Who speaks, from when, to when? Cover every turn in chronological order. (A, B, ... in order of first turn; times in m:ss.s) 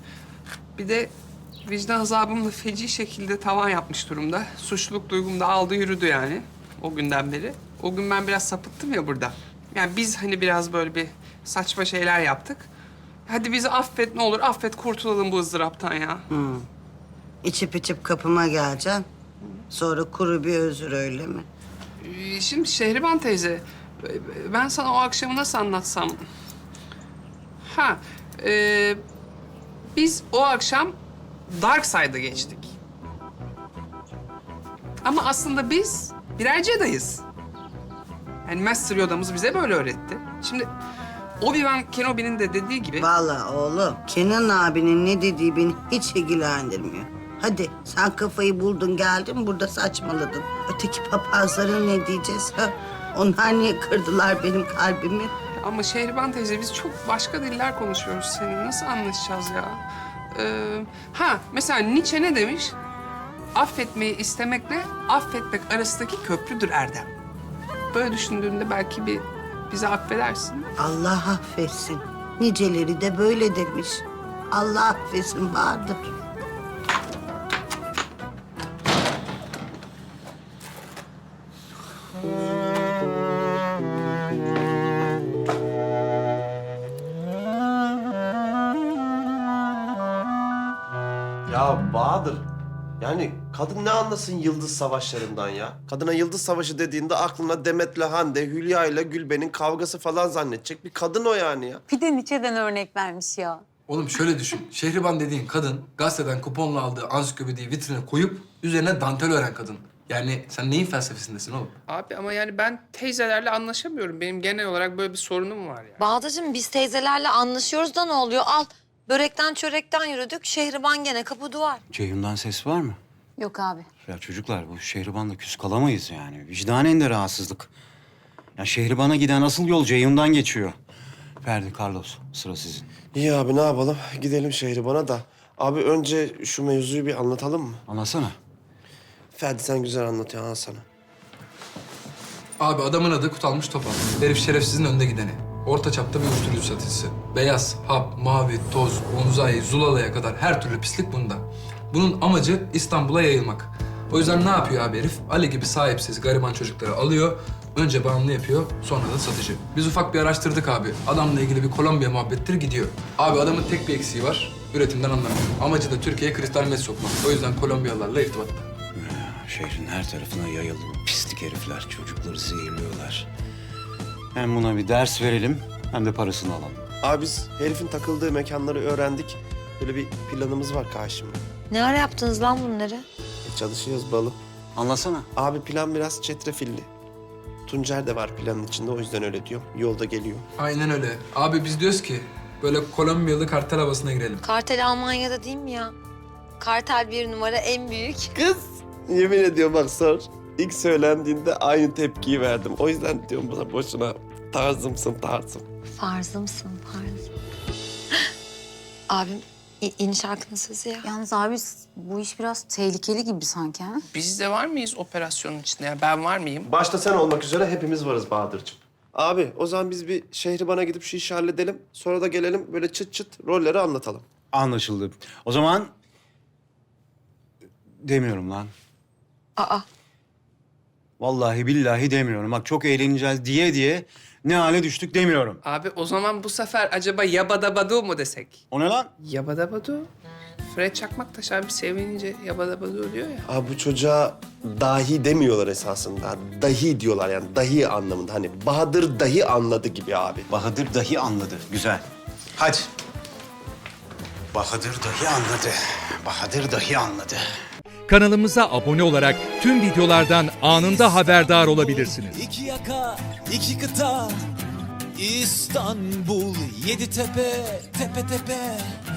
0:00.8-0:01.1 A
0:01.6-0:12.7 A
0:13.2-0:16.2 A
0:16.3-0:16.6 B
0:17.4-0:19.0 B
0:19.7-0:21.4 B
0:22.0-0:26.2 A
0:27.6-0:29.0 A
0:29.9-0:31.0 A
0:31.5-0:32.7 A
0:35.0-0:37.2 A
0:38.4-0:40.7 A
0:41.4-0:43.1 A
0:43.0-0:55.3 B
0:55.6-0:59.8 A
1:00.3-1:02.7 A
1:03.5-1:07.1 A
1:07.9-1:10.7 A
1:10.8-1:16.0 B
1:31.5-1:32.5 C
1:33.0-1:41.8 C
1:41.9-1:43.6 D
1:43.9-1:51.7 E
1:51.9-1:56.0 A
1:56.0-2:01.8 F
2:01.9-2:03.0 G
2:03.4-2:03.8 D
2:04.0-2:07.7 G
2:08.6-2:10.8 G
2:11.4-2:12.9 G
2:13.1-2:17.8 C
2:17.9-2:18.4 G
2:19.3-2:20.8 C
2:22.6-2:48.7 E
2:48.9-2:53.3 G
2:54.3-2:56.9 G
2:57.0-3:01.4 C
3:01.7-3:03.0 F
3:03.4-3:04.4 C
3:04.7-3:05.3 G
3:05.4-3:06.9 C
3:07.6-3:10.4 C
3:10.6-3:14.4 E
3:14.4-3:15.9 F
3:16.6-3:18.3 F
3:18.3-3:25.6 C
3:26.0-3:27.2 F
3:29.1-3:31.1 F
3:31.1-3:34.0 D
3:34.1-3:36.7 A
3:36.6-3:44.2 C
3:44.5-3:45.9 G
3:48.0-3:48.7 G
3:49.6-3:49.8 F
3:51.2-3:55.6 G
3:55.6-3:58.6 A
3:58.7-3:59.1 G
3:59.2-4:00.1 A
4:00.7-4:03.4 A
4:03.5-4:10.5 C
4:10.5-4:12.0 G
4:12.6-4:12.9 G
4:14.5-4:17.4 G
4:18.1-4:22.4 H
4:20.9-4:24.4 I
4:25.2-4:29.0 I